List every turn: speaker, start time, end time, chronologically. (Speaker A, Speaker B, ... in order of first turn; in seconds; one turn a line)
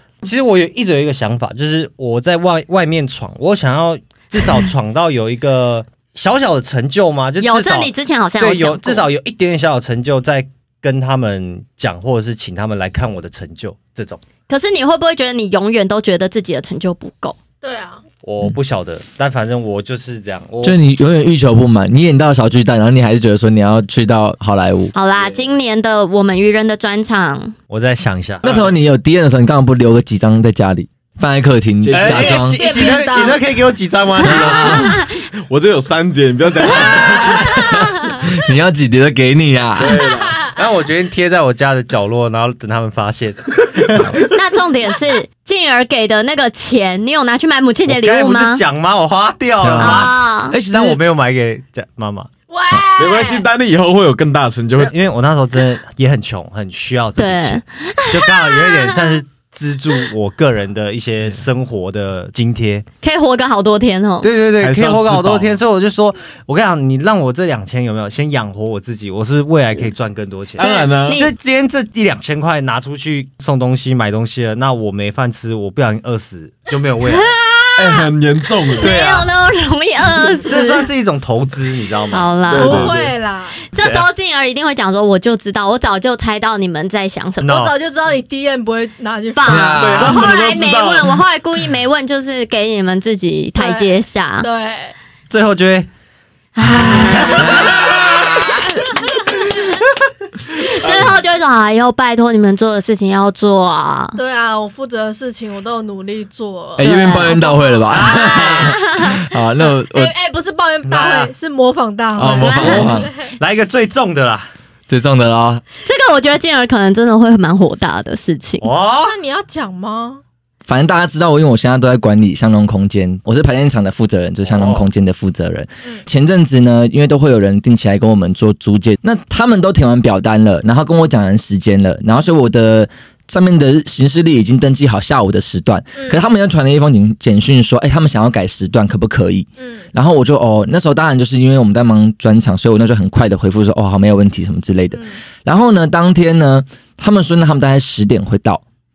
Speaker A: 0.2-14.2
Speaker B: 7.4-9.1
Speaker B: 14.5-17.4
Speaker C: 17.6-18.0
Speaker A: 18.2-20.8
Speaker D: 20.6-24.9
Speaker B: 24.9-27.6
Speaker A: 27.7-28.6
Speaker E: 28.4-28.7
Speaker D: 28.4-32.6
Speaker E: 31.8-32.5
Speaker A: 31.9-34.9
Speaker C: 32.4-33.4
Speaker D: 34.2-35.0
Speaker E: 35.5-37.6
Speaker D: 36.6-40.0
Speaker E: 39.8-40.4
Speaker A: 40.5-44.1
Speaker B: 44.3-48.6
Speaker A: 47.9-52.3
Speaker D: 49.6-51.0
Speaker B: 49.8-50.5
Speaker C: 52.5-53.5
Speaker E: 53.0-54.9
Speaker A: 54.8-62.8
Speaker B: 57.2-59.1
Speaker B: 63.0-64.3
Speaker A: 64.2-77.3
Speaker E: 64.6-65.6
Speaker E: 70.6-71.2
Speaker B: 70.6-71.3
Speaker B: 77.1-78.1
Speaker E: 77.8-79.0
Speaker B: 78.7-80.9
Speaker A: 78.8-79.3
Speaker A: 80.4-82.3
Speaker B: 82.1-82.9
Speaker E: 82.5-83.1
Speaker C: 82.5-83.6
Speaker B: 83.7-87.7
Speaker A: 83.8-84.1
Speaker A: 87.4-87.7
Speaker C: 87.4-89.8
Speaker B: 89.3-94.5
Speaker D: 89.5-90.3
Speaker E: 89.7-91.2
Speaker C: 93.6-94.9
Speaker A: 95.3-95.9
Speaker B: 96.5-98.6
Speaker A: 97.0-97.8
Speaker C: 97.7-98.3
Speaker B: 100.5-104.2
Speaker E: 100.8-101.1
Speaker C: 104.2-108.2
Speaker D: 106.8-110.1
Speaker B: 106.8-107.6
Speaker A: 107.9-108.8
Speaker B: 108.1-108.8
Speaker C: 109.7-113.3
Speaker A: 110.8-111.3
Speaker D: 112.2-113.1
Speaker B: 112.3-112.9
Speaker A: 113.3-114.5
Speaker D: 114.9-115.6
Speaker B: 115.8-118.7
Speaker A: 118.6-119.1
Speaker C: 119.0-120.2
Speaker D: 120.7-148.6
Speaker A: 124.4-124.8
Speaker C: 135.9-136.2
Speaker C: 139.6-139.9
Speaker C: 144.9-145.2